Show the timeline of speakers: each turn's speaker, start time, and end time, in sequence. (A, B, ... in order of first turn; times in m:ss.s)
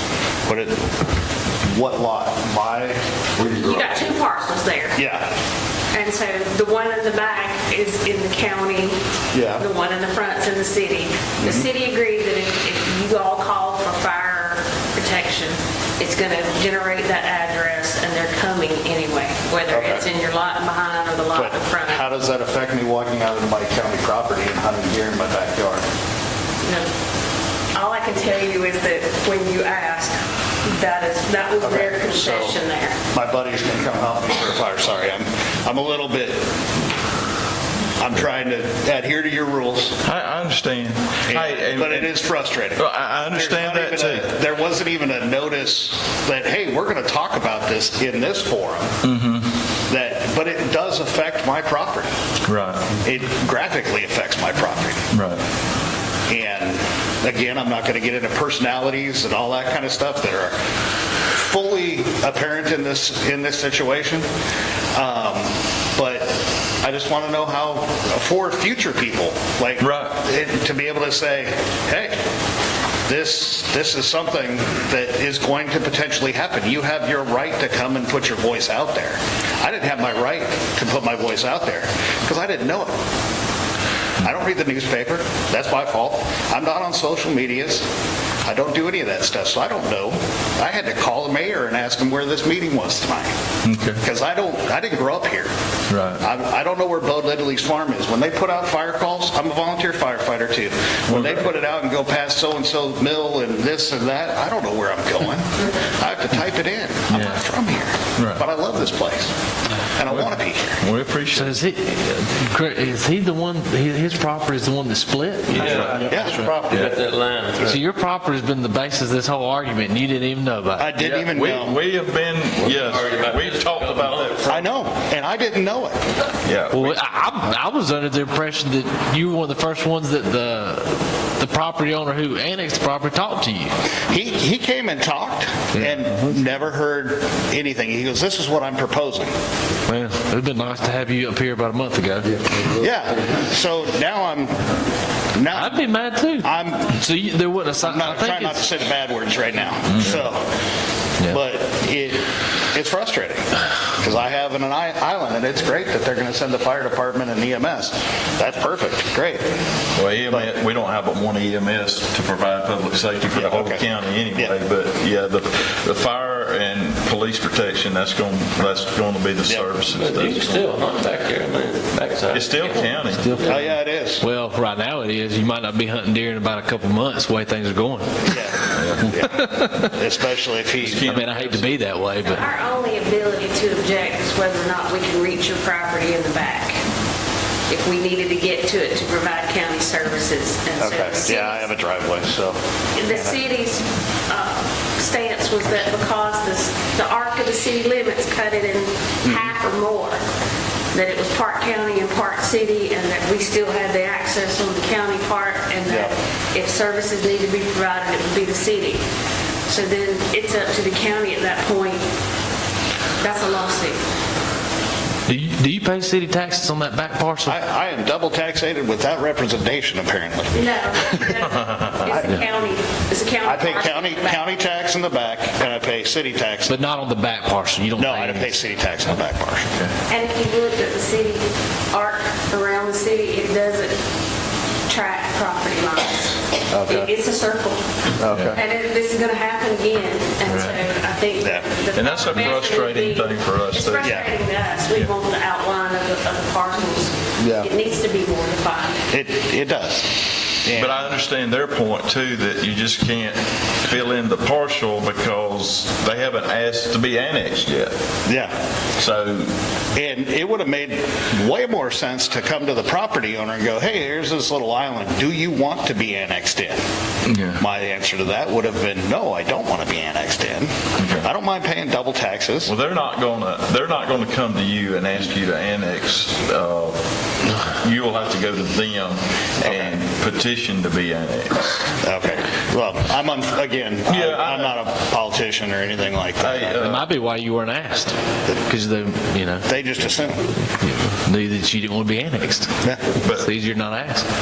0:00.5-0:00.9 A
0:01.7-0:03.9 A
0:03.5-0:05.0 B
0:05.0-0:05.3 A
0:05.9-0:09.0 B
0:09.3-0:09.7 A
0:09.6-0:22.0 B
0:11.4-0:11.7 A
0:19.7-0:20.0 A
0:21.3-0:25.8 A
0:26.6-0:26.9 B
0:27.7-0:33.0 B
0:31.6-0:32.6 A
0:33.1-0:36.5 A
0:38.0-0:40.0 A
0:40.0-0:42.1 C
0:41.3-0:48.9 A
0:42.8-0:44.3 C
0:49.0-0:49.5 C
0:49.9-0:52.1 A
0:52.5-0:52.9 C
0:53.0-0:55.0 A
0:55.1-0:55.4 C
0:56.3-1:00.6 A
1:01.3-1:04.3 A
1:04.9-1:12.2 A
1:09.8-1:10.2 C
1:13.1-1:22.9 A
1:24.2-1:27.8 A
1:28.4-1:33.3 A
1:33.6-1:34.0 C
1:34.0-1:35.5 A
1:35.9-1:36.2 C
1:36.2-1:49.3 A
1:41.1-1:41.5 C
1:47.1-1:47.4 C
1:48.2-1:48.4 C
1:50.0-1:50.8 A
1:50.1-1:51.6 C
1:51.3-1:56.6 D
1:55.5-1:56.2 C
1:55.6-1:57.8 E
1:56.0-1:56.9 A
1:57.6-2:00.9 D
2:00.8-2:01.8 A
2:01.0-2:04.7 C
2:02.6-2:04.6 E
2:04.5-2:06.0 A
2:06.4-2:07.0 C
2:06.7-2:13.7 D
2:14.1-2:19.3 A
2:19.9-2:22.5 D
2:22.7-2:24.6 A
2:25.3-2:25.9 A
2:25.5-2:28.7 D
2:26.4-2:26.9 A
2:27.8-2:30.5 A
2:29.9-2:30.2 C
2:31.3-2:33.4 A
2:34.0-2:39.5 A
2:40.0-2:50.7 C
2:43.4-2:44.5 A
2:49.5-2:49.7 A
2:49.9-2:53.6 E
2:52.3-2:53.2 C
2:53.2-3:00.0 D
2:53.4-2:54.3 A
2:58.3-3:01.1 A
2:58.7-2:59.1 C
3:00.8-3:01.8 C
3:01.0-3:02.4 D
3:02.2-3:06.8 B
3:07.7-3:11.7 B
3:10.8-3:13.4 A
3:13.0-3:20.2 B
3:19.2-3:19.5 A
3:20.9-3:29.0 B
3:25.9-3:26.1 A
3:29.7-3:32.0 B
3:33.2-3:34.0 B
3:35.3-3:37.6 D
3:37.4-3:41.2 A
3:40.5-3:44.5 B
3:41.6-3:42.0 C
3:42.1-3:42.5 D
3:43.4-3:46.8 A
3:46.7-3:48.6 D
3:48.0-3:49.7 A
3:50.1-3:54.0 B
3:54.9-3:57.8 B
3:56.7-3:57.1 A
3:58.2-3:58.6 A
3:58.3-3:58.6 C
3:58.4-4:09.0 B
4:00.4-4:00.8 C
4:01.4-4:01.7 A
4:01.9-4:04.2 C
4:04.0-4:04.3 A
4:07.4-4:07.7 A
4:09.1-4:11.1 A
4:10.7-4:18.0 C
4:18.3-4:18.5 A
4:19.0-4:19.5 C
4:20.0-4:26.8 A
4:27.3-4:27.6 C
4:27.6-4:32.7 A
4:31.0-4:31.3 C
4:32.7-4:37.0 C
4:37.6-4:41.8 C
4:39.6-4:39.9 A
4:42.0-4:46.8 A
4:44.1-4:44.8 C
4:46.4-4:47.1 C
4:46.8-4:49.6 D
4:49.7-4:50.5 A
4:50.8-4:54.3 D
4:53.2-4:53.5 C